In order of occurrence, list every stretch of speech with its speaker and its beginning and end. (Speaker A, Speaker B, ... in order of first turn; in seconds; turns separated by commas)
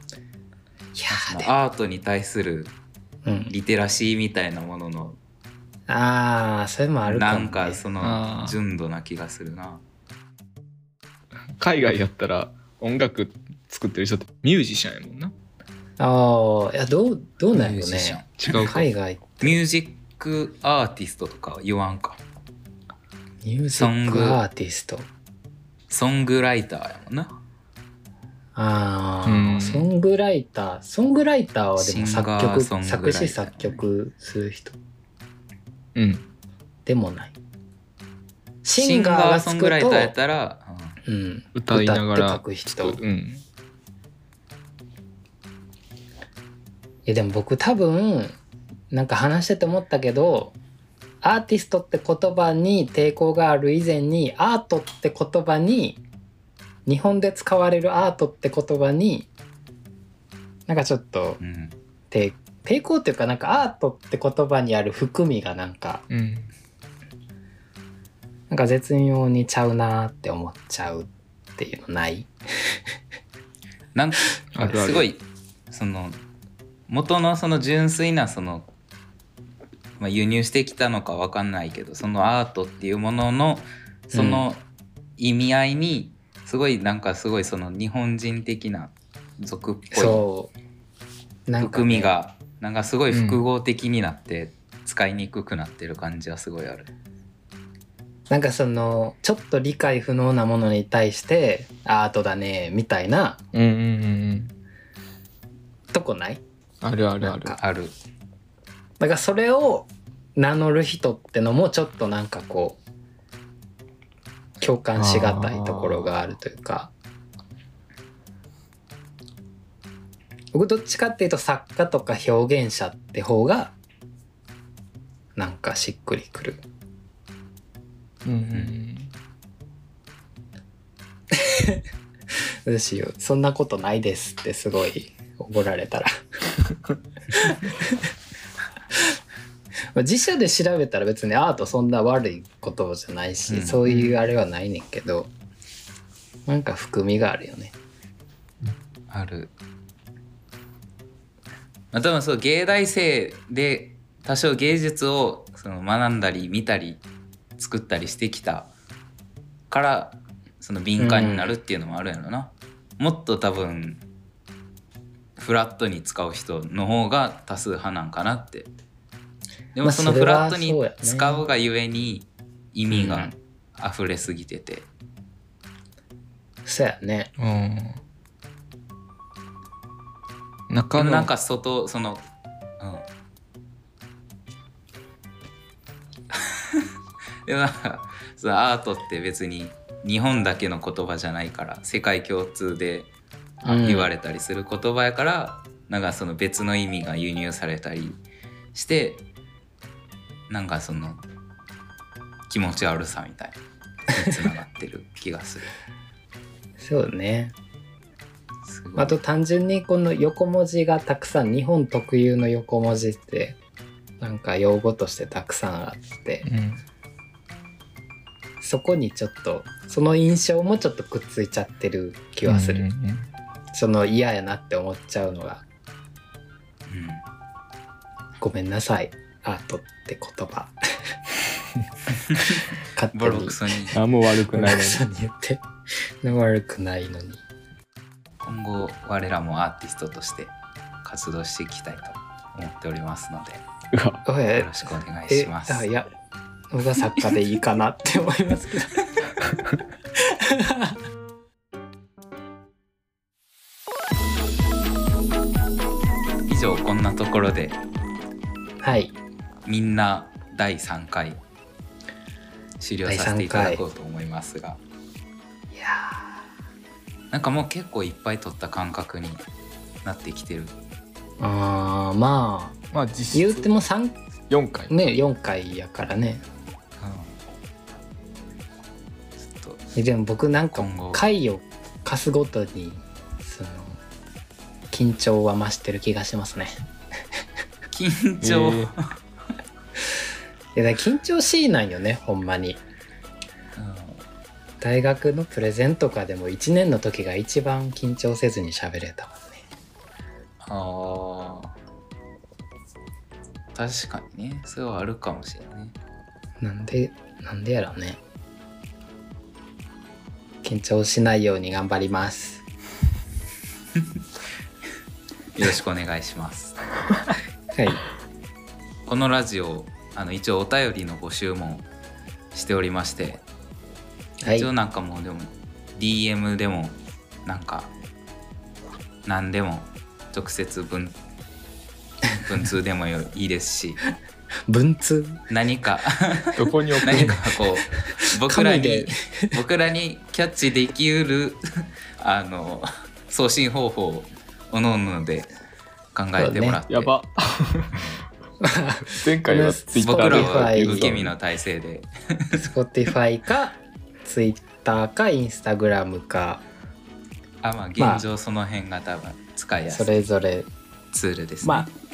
Speaker A: 1.0-1.5, Speaker B: 1.1-2.7, Speaker A: 3.2-3.5, Speaker B: 3.5-5.2, Speaker A: 5.9-7.8, Speaker B: 7.0-9.8, Speaker C: 8.0-8.6, Speaker C: 11.6-15.3, Speaker A: 16.0-19.6, Speaker B: 17.5-18.9, Speaker C: 18.5-18.9, Speaker B: 19.4-22.2, Speaker A: 23.4-25.1, Speaker B: 23.7-24.4, Speaker B: 25.9-27.3, Speaker A: 28.6-34.8, Speaker C: 29.2-29.9, Speaker B: 31.8-33.8, Speaker C: 36.0-36.2, Speaker A: 36.9-37.4, Speaker A: 38.6-40.1, Speaker B: 38.8-41.0, Speaker A: 41.0-43.0, Speaker C: 41.5-43.5, Speaker A: 47.1-48.4, Speaker A: 48.9-50.5, Speaker A: 51.2-56.0, Speaker A: 56.9-59.3, Speaker A: 60.7-61.4, Speaker B: 61.4-61.8, Speaker A: 62.1-66.0, Speaker C: 66.1-66.5, Speaker A: 68.5-72.8, Speaker B: 73.9-76.2, Speaker C: 74.5-75.1, Speaker B: 76.9-78.7, Speaker B: 80.0-84.6, Speaker A: 84.1-84.5, Speaker B: 85.2-90.2, Speaker A: 89.9-90.5, Speaker A: 91.5-92.2, Speaker B: 91.6-96.9, Speaker C: 93.1-93.4, Speaker A: 98.3-103.4, Speaker C: 103.5-104.5, Speaker A: 105.9-106.4, Speaker C: 106.8-107.6, Speaker A: 107.2-107.6, Speaker B: 107.6-107.9, Speaker A: 109.0-112.8, Speaker A: 114.6-116.9, Speaker C: 115.0-116.1, Speaker A: 120.5-123.8, Speaker A: 125.4-126.6, Speaker C: 128.2-129.1, Speaker A: 131.3-131.8, Speaker A: 132.7-136.1, Speaker A: 137.4-138.0, Speaker A: 139.9-145.3, Speaker B: 143.5-144.2, Speaker A: 146.5-147.7, Speaker B: 149.1-149.5, Speaker B: 151.9-157.0, Speaker B: 157.6-158.7, Speaker B: 159.7-164.0, Speaker A: 161.0-161.5, Speaker B: 165.4-168.7, Speaker B: 169.8-174.9, Speaker A: 169.8-171.4, Speaker A: 172.9-173.3, Speaker A: 176.7-177.3, Speaker C: 177.4-178.0, Speaker C: 180.7-181.3, Speaker B: 180.9-182.3, Speaker B: 182.8-183.1, Speaker B: 186.3-186.8, Speaker B: 187.4-193.1, Speaker B: 193.6-198.2, Speaker A: 193.6-194.1, Speaker B: 198.7-199.3, Speaker B: 200.5-201.2, Speaker B: 202.5-203.6, Speaker B: 204.1-205.7, Speaker A: 206.8-207.5, Speaker B: 208.7-209.2, Speaker A: 209.0-213.6, Speaker A: 214.2-216.4, Speaker C: 216.4-216.8, Speaker A: 218.6-222.9, Speaker C: 222.4-223.3, Speaker A: 223.7-225.6, Speaker B: 226.9-227.2, Speaker A: 228.4-230.8, Speaker B: 232.3-232.6, Speaker A: 232.9-233.8, Speaker B: 233.2-234.0, Speaker C: 233.9-235.0, Speaker A: 234.5-235.6, Speaker A: 236.2-237.4, Speaker B: 238.4-243.6, Speaker C: 243.9-244.2, Speaker A: 244.2-246.1, Speaker B: 244.5-245.9, Speaker A: 246.7-249.0, Speaker A: 250.2-251.0, Speaker B: 256.5-257.8, Speaker A: 258.8-259.1, Speaker B: 259.7-261.4, Speaker B: 262.8-264.8, Speaker A: 263.1-263.8, Speaker A: 265.7-266.3, Speaker B: 267.3-269.4, Speaker B: 270.0-270.8, Speaker A: 271.4-272.8, Speaker C: 272.9-273.7, Speaker A: 273.3-274.2, Speaker C: 274.5-274.9, Speaker A: 274.9-276.4, Speaker B: 277.0-277.4, Speaker B: 279.4-279.9, Speaker A: 279.9-284.0, Speaker B: 280.8-281.2, Speaker A: 284.9-286.7, Speaker B: 287.9-289.0, Speaker C: 288.4-288.9, Speaker A: 290.8-292.8, Speaker B: 293.8-294.2, Speaker A: 294.8-299.6, Speaker B: 300.6-301.7, Speaker B: 303.7-305.9, Speaker A: 306.6-308.2, Speaker A: 310.6-312.6, Speaker B: 315.6-316.8, Speaker A: 317.7-318.0, Speaker B: 319.1-321.9, Speaker B: 322.5-323.4, Speaker A: 324.4-324.7, Speaker B: 324.5-327.9, Speaker B: 329.2-331.2, Speaker B: 332.4-334.0, Speaker A: 334.7-335.4, Speaker B: 335.5-345.5, Speaker C: 336.6-337.4, Speaker A: 338.2-339.5, Speaker B: 346.1-347.1, Speaker A: 346.4-346.8, Speaker C: 346.9-348.1, Speaker B: 347.9-348.2, Speaker A: 348.6-351.1, Speaker C: 349.1-351.3, Speaker B: 350.0-352.7, Speaker A: 352.6-356.6, Speaker B: 357.6-360.1, Speaker A: 358.0-358.2, Speaker A: 359.9-360.7, Speaker B: 361.1-361.9, Speaker A: 361.6-361.9